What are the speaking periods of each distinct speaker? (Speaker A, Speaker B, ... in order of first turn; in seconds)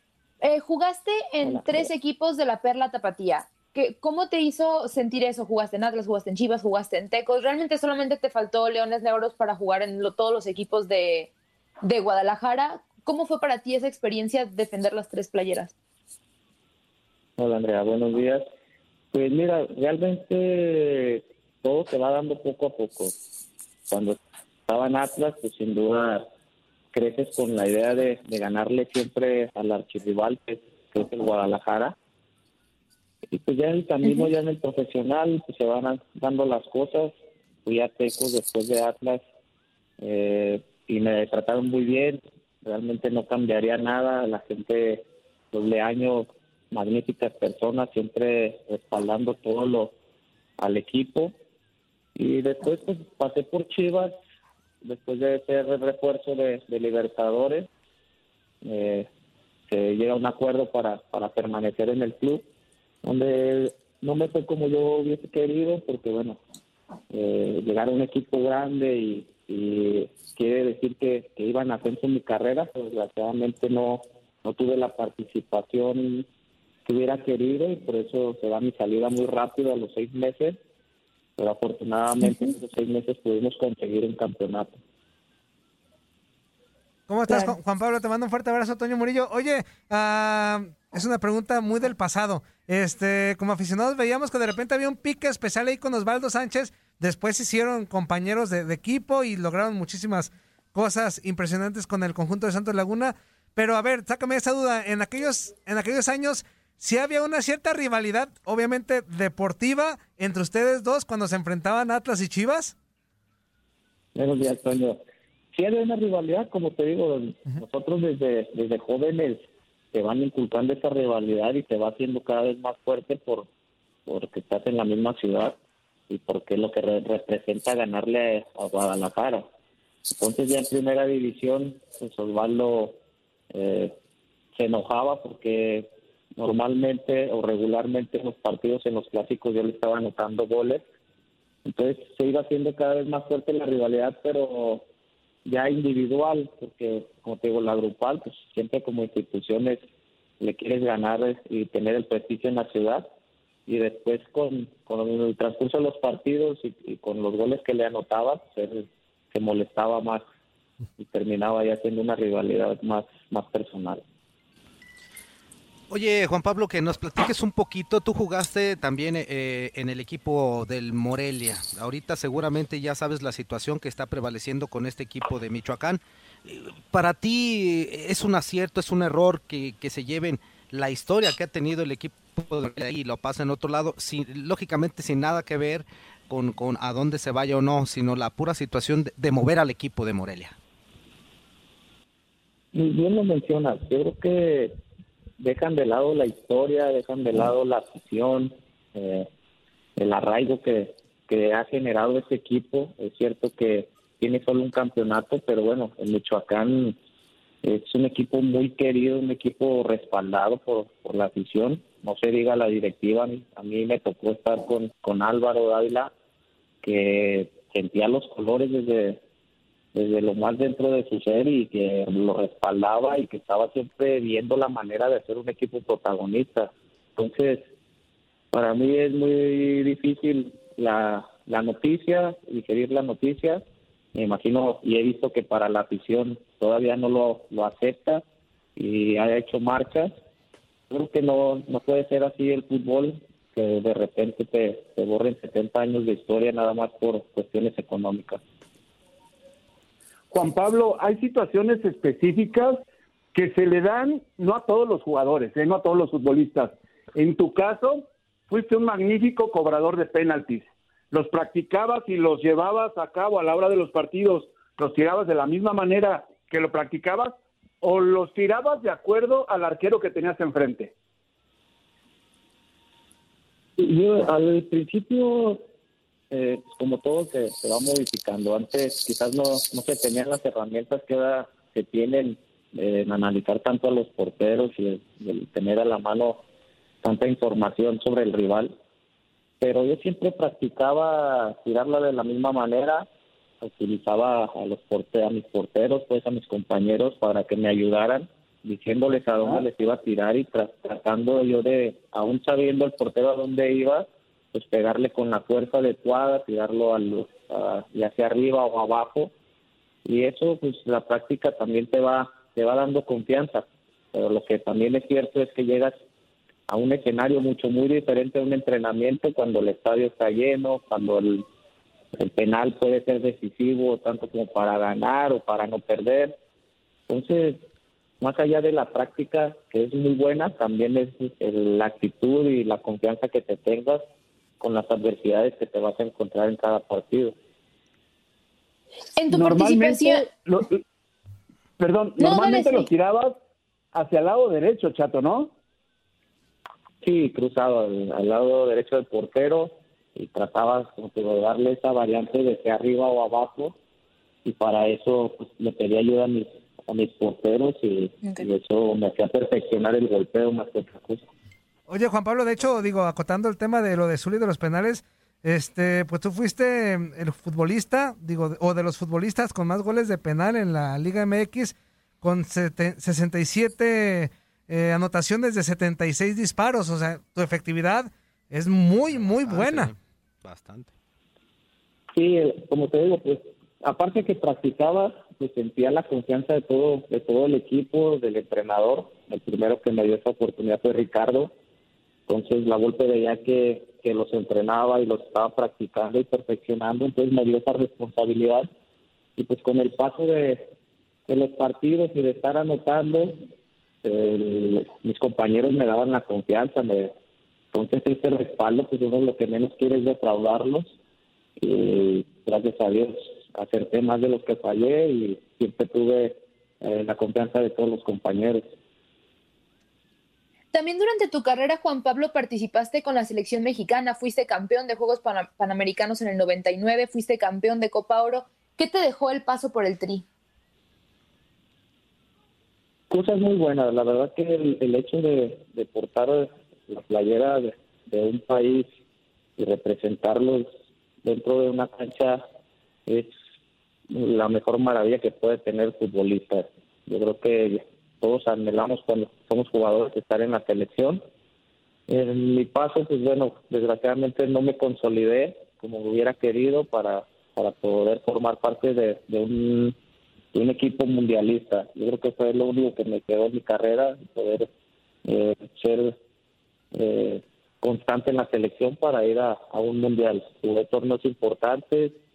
Speaker A: 0.4-11.3, 11.8-15.7, 339.2-340.2, 342.2-342.9, 420.7-430.2
Speaker B: 1.4-1.8, 17.4-18.4, 19.1-23.1, 23.9-26.3, 26.9-31.9, 33.3-39.2, 40.0-49.9, 50.6-51.3, 52.1-54.1, 54.8-57.7, 58.6-59.1, 59.7-62.4, 63.0-66.4, 67.1-76.3, 76.8-80.6, 81.4-84.8, 114.1-115.0, 115.5-123.5, 124.0-125.5, 126.1-129.5, 130.1-133.0, 133.5-133.9, 134.5-140.8, 141.6-144.8, 145.4-149.8, 150.4-153.1, 153.7-160.2, 161.0-164.0, 192.7-194.8, 195.4-199.3, 200.0-207.0, 207.6-216.1, 216.8-219.2, 219.9-227.7, 228.5-233.6, 234.1-238.2, 238.8-240.1, 240.9-248.4, 273.8-275.6, 276.3-286.4, 287.0-288.7, 289.6-293.1, 293.6-309.3, 310.1-316.0, 316.7-321.5, 322.2-326.3, 327.1-327.6, 328.2-334.0, 334.6-337.3, 347.0-353.8, 354.4-361.2, 382.1-391.5, 392.3-398.7, 399.4-400.7, 401.3-403.4, 404.0-407.1, 407.7-410.9, 411.6-418.6, 433.1-438.9, 439.6-440.7, 441.2-442.4, 443.1-443.4, 444.1-451.2, 452.1-459.9, 460.5-464.7, 465.2-466.1, 466.9-472.2
Speaker C: 87.1-112.7, 361.9-379.9
Speaker D: 165.9-190.6, 379.1-380.9
Speaker E: 250.3-270.9, 339.3-340.8, 341.8-343.4, 343.9-345.5